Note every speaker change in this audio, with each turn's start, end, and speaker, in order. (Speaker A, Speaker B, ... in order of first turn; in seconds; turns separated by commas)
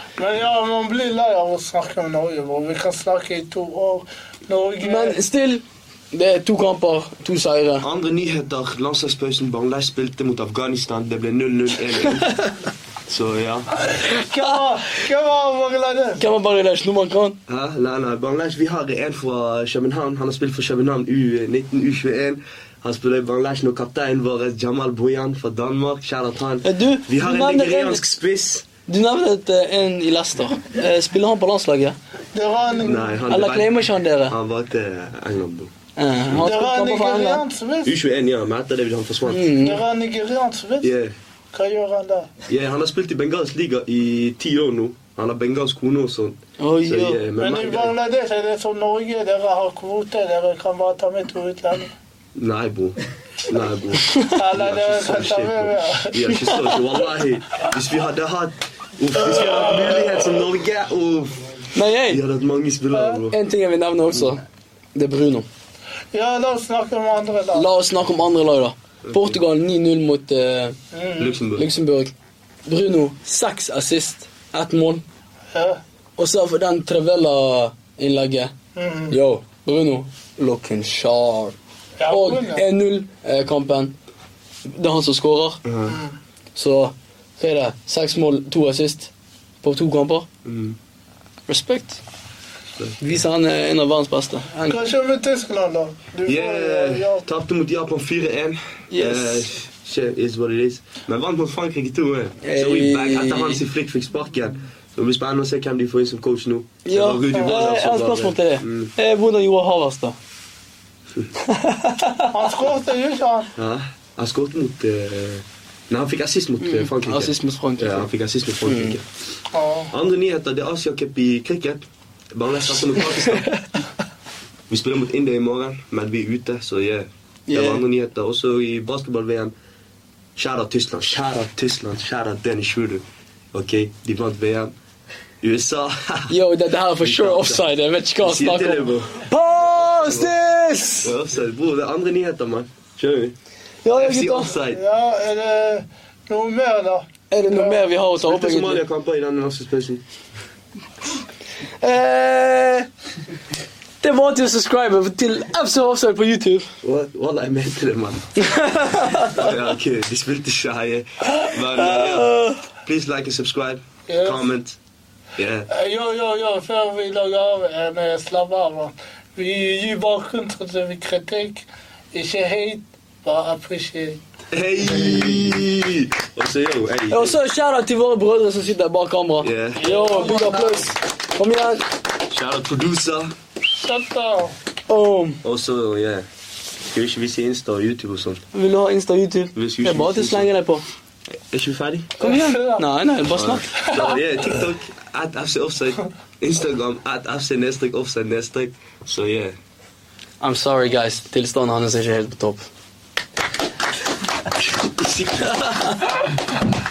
Speaker A: 0.2-5.2, Speaker B: 4.8-7.8, Speaker C: 7.8-12.3, Speaker B: 12.2-12.5, Speaker C: 13.1-13.7, Speaker A: 14.1-16.2, Speaker B: 14.2-14.6, Speaker B: 16.2-17.4, Speaker C: 17.5-28.7, Speaker B: 26.6-28.0, Speaker B: 28.9-32.0, Speaker A: 32.3-33.2, Speaker C: 32.8-35.7, Speaker B: 33.3-34.4, Speaker B: 36.0-37.4, Speaker A: 36.3-38.0, Speaker C: 37.9-39.6, Speaker B: 39.3-39.8, Speaker A: 39.6-40.9, Speaker C: 40.8-41.1, Speaker A: 41.5-42.3, Speaker C: 42.5-47.9, Speaker B: 46.6-47.2, Speaker A: 47.4-51.9, Speaker C: 52.4-61.5, Speaker A: 54.3-56.3, Speaker B: 56.3-56.8, Speaker A: 59.3-60.1, Speaker B: 61.8-62.2, Speaker C: 62.0-63.4, Speaker A: 62.9-63.3, Speaker B: 63.3-64.4, Speaker B: 65.0-65.5, Speaker A: 66.1-67.7, Speaker B: 67.5-70.8, Speaker C: 69.0-69.4, Speaker A: 70.9-71.4, Speaker C: 71.2-71.7, Speaker B: 71.6-72.1, Speaker B: 72.7-75.0, Speaker A: 75.5-75.8, Speaker B: 76.2-78.5, Speaker A: 78.8-79.2, Speaker B: 79.1-81.5, Speaker A: 82.0-82.6, Speaker B: 82.1-84.0, Speaker B: 84.7-85.6, Speaker C: 85.7-86.0, Speaker A: 85.9-86.2, Speaker B: 86.6-89.1, Speaker B: 89.6-90.3, Speaker C: 90.5-90.8, Speaker B: 91.5-92.0, Speaker B: 93.0-94.8, Speaker A: 94.7-97.2, Speaker C: 96.3-108.9, Speaker B: 98.9-99.5, Speaker B: 102.4-103.6, Speaker B: 106.8-110.2, Speaker A: 107.3-107.6, Speaker B: 111.4-112.3, Speaker A: 112.3-113.5, Speaker C: 113.6-119.0, Speaker B: 116.6-118.1, Speaker B: 118.6-119.0, Speaker A: 119.5-119.9, Speaker C: 119.9-123.5, Speaker B: 123.2-123.6, Speaker C: 124.7-129.5, Speaker B: 127.5-127.8, Speaker C: 130.4-134.7, Speaker C: 135.4-136.3, Speaker B: 136.3-141.1, Speaker C: 137.0-137.7, Speaker C: 138.2-139.1, Speaker C: 140.0-140.3, Speaker C: 141.0-143.3, Speaker B: 143.8-144.6, Speaker C: 144.0-144.8, Speaker A: 144.7-147.8, Speaker B: 147.3-148.8, Speaker C: 148.2-150.0, Speaker B: 151.8-152.9, Speaker B: 154.0-156.7, Speaker C: 156.8-158.4, Speaker B: 158.4-159.5, Speaker C: 159.2-164.8, Speaker B: 161.2-162.6, Speaker A: 164.1-164.5, Speaker C: 165.4-165.7, Speaker A: 165.7-174.2, Speaker C: 174.5-177.4, Speaker B: 177.1-181.9, Speaker C: 179.4-179.8, Speaker A: 179.8-180.9, Speaker C: 182.3-183.3, Speaker A: 183.8-184.6, Speaker B: 184.9-185.4, Speaker C: 185.4-186.3, Speaker C: 186.9-188.4, Speaker B: 188.5-190.8, Speaker C: 189.6-190.5, Speaker C: 191.5-192.2, Speaker B: 192.2-194.1, Speaker A: 192.2-192.9, Speaker C: 193.3-199.6, Speaker A: 193.8-194.6, Speaker B: 200.4-202.6, Speaker C: 204.9-205.9